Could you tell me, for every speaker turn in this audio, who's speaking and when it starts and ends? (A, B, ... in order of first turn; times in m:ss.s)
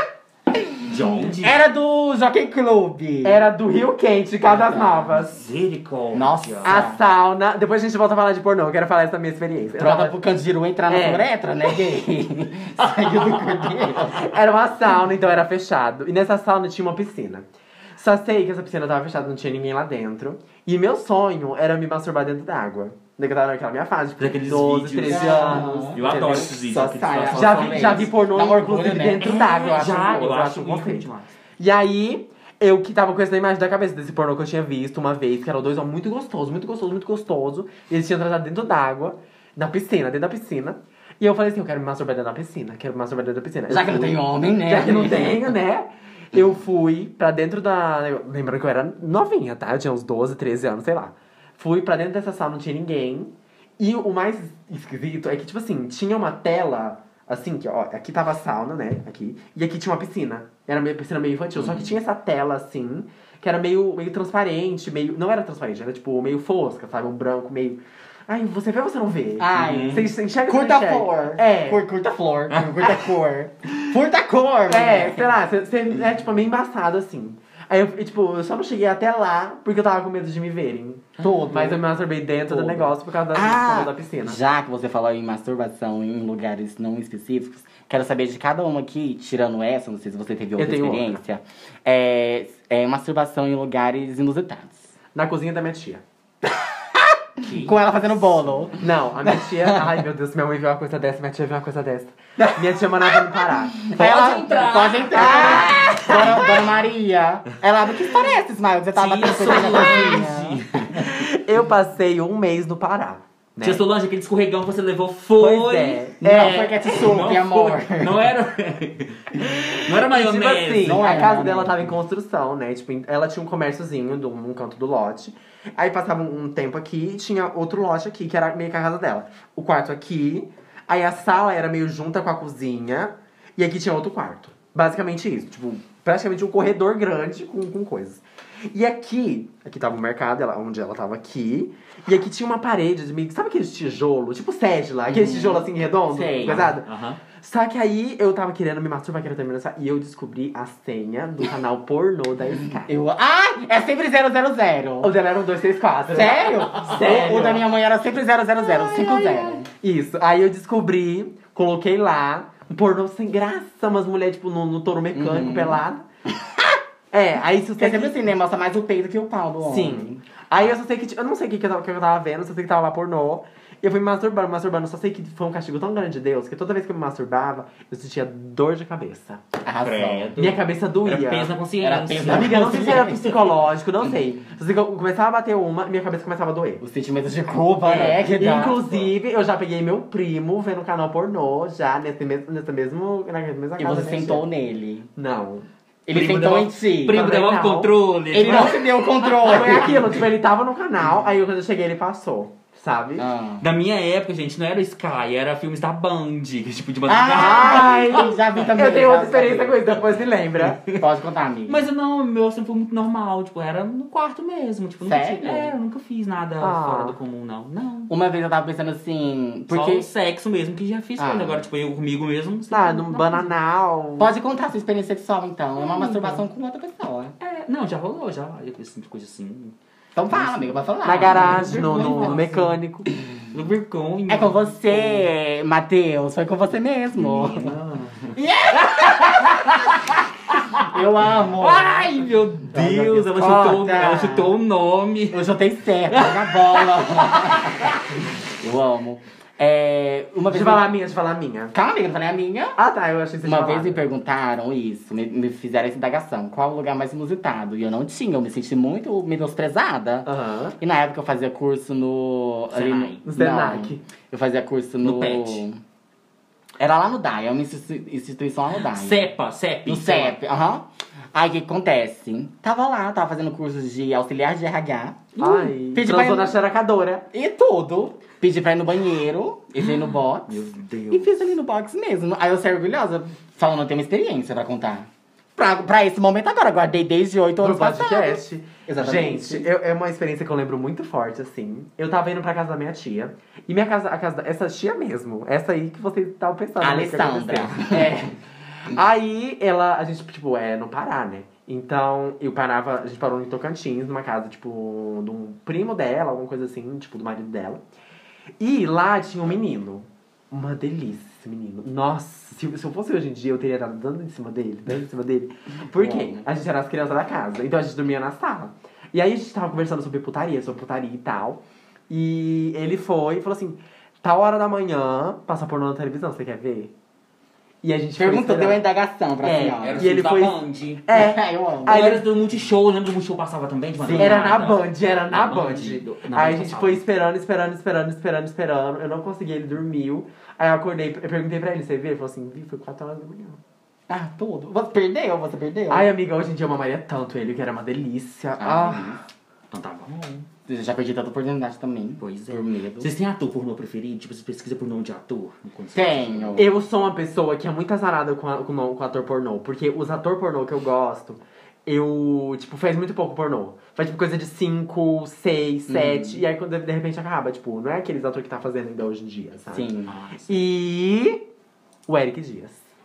0:00.5-0:03.4 A
0:00.8-0:01.6 B
0:03.2-0:05.4 C
0:04.4-0:05.0 A
0:05.1-0:06.8 B
0:06.1-0:07.0 A
0:06.6-0:10.2 C
0:09.8-0:14.3 A
0:10.9-0:11.3 C
0:12.8-0:14.1 B
0:14.1-0:26.5 C
0:24.2-0:28.1 B
0:25.1-0:30.2 A
0:27.3-0:31.1 C
0:29.2-0:31.3 B
0:31.6-1:11.8 C
0:43.7-0:45.5 A
1:09.4-1:15.3 A
1:09.5-1:10.0 B
1:12.5-1:13.1 B
1:14.7-1:24.4 C
1:21.2-1:21.8 A
1:22.5-1:34.9 A
1:30.6-1:31.2 C
1:35.1-1:36.0 C
1:36.9-1:40.0 A
1:37.4-1:37.8 B
1:38.8-1:43.9 C
1:42.4-1:51.0 A
1:43.9-1:46.6 B
1:45.1-1:46.6 C
1:49.0-1:51.1 B
1:49.5-1:50.2 C
1:50.9-1:53.8 C
1:53.6-2:01.4 B
1:55.4-1:57.0 C
1:56.2-1:58.3 A
2:00.0-2:32.9 C
2:00.8-2:01.7 A
2:25.1-2:26.8 A
2:26.5-2:27.2 B
2:32.9-2:35.1 A
2:35.0-2:37.7 C
2:36.1-2:39.7 A
2:38.6-2:46.0 C
2:45.1-2:46.7 A
2:47.1-2:48.2 C
2:47.8-2:50.2 A
2:49.6-2:59.4 C
2:59.6-3:00.3 A
2:59.8-3:03.0 B
3:00.4-3:01.5 C
3:01.8-3:03.5 A
3:02.2-3:06.8 C
3:06.8-3:08.8 A
3:07.8-3:14.4 C
3:13.8-3:15.1 A
3:15.2-3:15.6 C
3:16.0-3:17.3 A
3:16.1-3:19.1 B
3:17.1-3:23.3 C
3:18.3-3:20.0 A
3:19.6-3:20.0 B
3:23.2-3:23.6 A
3:23.6-3:28.7 B
3:27.1-3:31.8 A
3:27.3-3:30.8 C
3:30.7-3:31.0 B
3:31.7-3:38.1 B
3:35.0-3:35.7 A
3:36.6-3:37.2 C
3:38.1-3:40.1 A
3:39.7-3:43.5 B
3:41.2-3:41.6 A
3:42.7-3:44.3 C
3:44.2-3:47.3 A
3:45.8-3:46.4 B
3:47.4-3:49.7 B
3:50.1-3:52.4 A
3:50.3-3:52.8 B
3:51.0-3:53.1 C
3:53.5-3:55.3 B
3:54.3-3:57.8 A
3:57.1-4:05.4 B
3:58.3-3:59.9 A
4:00.8-4:02.1 A
4:02.7-4:04.5 A
4:05.3-4:10.9 A
4:06.1-4:08.1 B
4:10.5-4:11.7 C
4:11.7-4:12.8 A
4:12.8-4:14.0 C
4:13.4-4:20.3 A
4:20.2-4:20.8 C
4:20.8-4:25.8 A
4:22.7-4:23.2 B
4:23.2-4:24.0 C
4:25.0-4:25.6 B
4:26.8-4:29.3 A
4:28.8-4:30.4 B
4:29.8-4:36.5 A
4:35.4-4:37.3 C
4:37.3-4:49.7 A
4:39.8-4:41.5 B
4:47.6-4:58.3 C
4:56.8-4:58.2 A
4:58.9-5:07.8 C
5:08.6-5:26.9 C
5:15.9-5:16.4 A
5:27.8-5:28.8 C
5:28.2-5:30.1 A
5:29.4-5:32.2 C
5:29.8-5:31.0 B
5:31.1-5:32.0 A
5:31.8-5:37.0 B
5:34.0-5:34.6 A
5:34.2-5:43.6 C
5:44.1-5:46.1 A
5:45.9-5:49.2 C
5:48.6-5:49.2 A
5:49.7-5:50.5 B
5:50.7-5:53.1 A
5:52.2-5:56.7 B
5:55.9-5:56.7 A
5:56.6-6:09.9 C
6:05.9-6:06.4 A
6:09.7-6:10.1 A
6:10.0-6:10.7 B
6:10.5-6:11.4 C
6:12.1-6:12.8 C